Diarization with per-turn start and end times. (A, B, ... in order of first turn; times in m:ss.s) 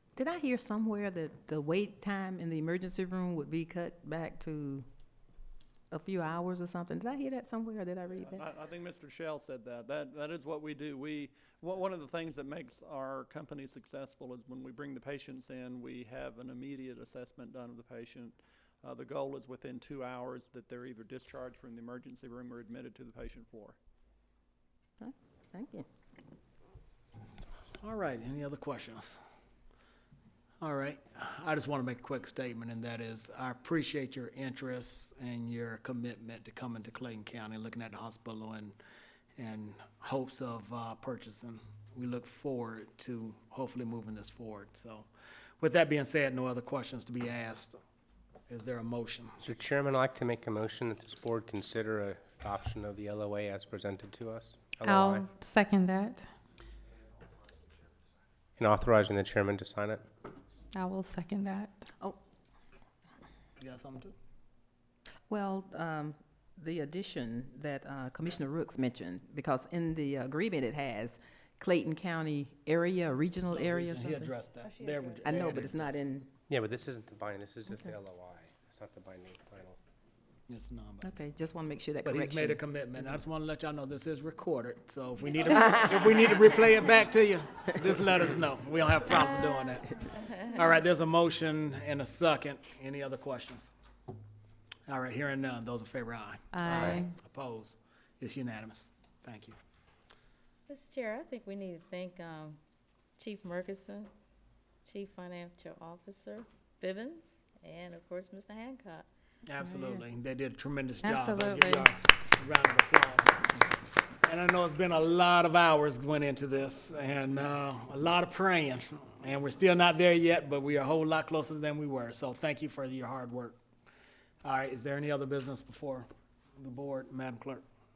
0:00.2-0:04.9 A
0:05.9-0:08.4 A
0:08.1-0:23.8 B
0:25.0-0:25.8 A
0:27.8-0:29.2 C
0:30.6-0:38.8 C
0:39.4-0:45.1 C
0:45.6-0:47.8 C
0:48.5-0:49.4 C
0:49.4-0:55.3 D
0:54.8-0:56.3 E
0:58.6-1:00.0 D
1:00.7-1:01.8 E
1:03.6-1:04.1 C
1:05.3-1:14.3 A
1:13.5-1:16.0 C
1:14.6-1:15.3 F
1:15.2-1:16.3 A
1:16.5-1:19.8 D
1:20.5-1:21.1 C
1:21.0-1:22.6 A
1:22.0-1:33.7 C
1:25.6-1:26.0 A
1:34.9-1:39.6 C
1:36.5-1:37.1 E
1:36.7-1:37.0 D
1:40.7-1:42.6 F
1:43.2-1:44.1 F
1:44.8-1:49.1 F
1:49.4-1:53.6 C
1:49.6-1:50.0 E
1:51.0-1:51.9 E
1:54.2-2:03.6 C
2:04.4-2:06.0 C
2:06.6-2:07.6 C